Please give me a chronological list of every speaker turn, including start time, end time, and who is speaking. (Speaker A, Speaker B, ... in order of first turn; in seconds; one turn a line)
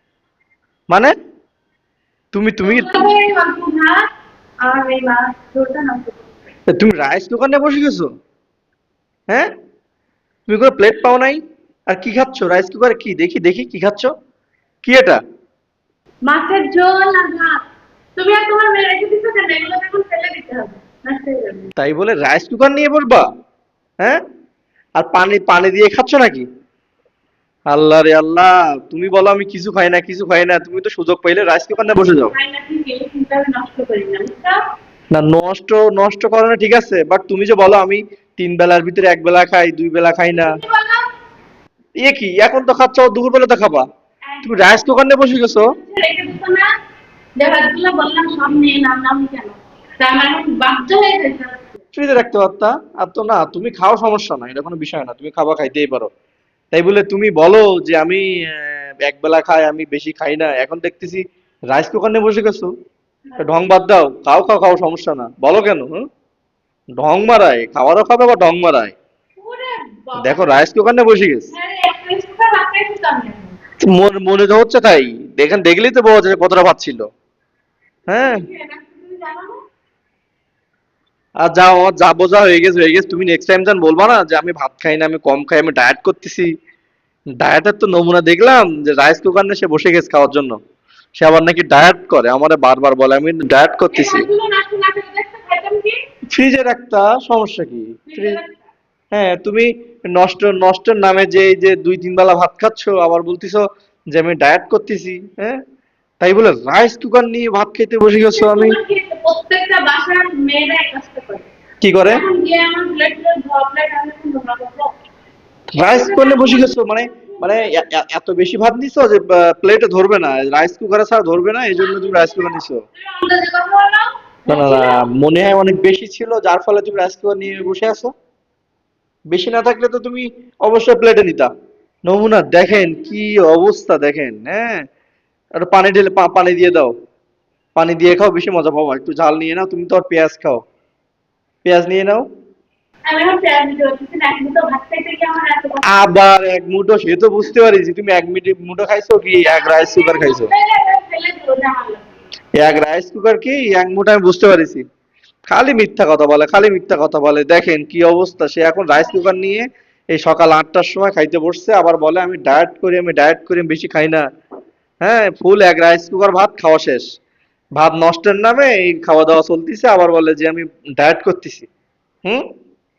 Speaker A: 2.3-3.0
Speaker B: 2.6-4.1
Speaker B: 4.6-6.3
Speaker A: 6.7-8.1
Speaker A: 10.5-14.1
Speaker A: 14.8-15.2
Speaker B: 16.2-17.6
Speaker B: 18.1-21.7
Speaker A: 21.8-23.2
Speaker A: 25.0-26.4
Speaker A: 27.7-32.3
Speaker B: 31.8-34.6
Speaker A: 35.1-40.6
Speaker B: 40.3-41.0
Speaker A: 42.0-43.8
Speaker B: 44.3-44.8
Speaker A: 44.4-45.7
Speaker B: 45.6-46.7
Speaker B: 47.4-51.8
Speaker A: 51.9-56.1
Speaker A: 56.7-62.7
Speaker B: 63.2-63.6
Speaker A: 63.4-65.9
Speaker A: 67.0-68.9
Speaker B: 69.4-70.6
Speaker A: 70.2-71.5
Speaker B: 71.5-73.6
Speaker A: 73.8-77.0
Speaker A: 78.1-78.4
Speaker B: 78.1-79.6
Speaker A: 81.4-86.5
Speaker A: 87.4-90.6
Speaker A: 91.2-94.3
Speaker B: 93.9-96.0
Speaker A: 96.3-98.4
Speaker B: 98.1-98.7
Speaker A: 99.1-105.6
Speaker A: 106.2-108.8
Speaker B: 108.3-111.5
Speaker A: 111.8-112.2
Speaker B: 112.1-114.9
Speaker A: 115.7-122.8
Speaker B: 115.8-116.8
Speaker B: 117.3-117.7
Speaker B: 121.8-125.0
Speaker A: 124.5-128.1
Speaker A: 129.3-131.5
Speaker A: 132.1-134.8
Speaker B: 132.7-133.2
Speaker A: 135.6-136.9
Speaker A: 137.8-140.6
Speaker A: 141.6-142.2
Speaker B: 143.1-145.9
Speaker A: 145.8-150.5
Speaker B: 149.4-152.1
Speaker A: 152.6-154.8
Speaker A: 155.5-164.2
Speaker B: 158.9-159.5
Speaker A: 165.0-167.1
Speaker A: 167.8-171.7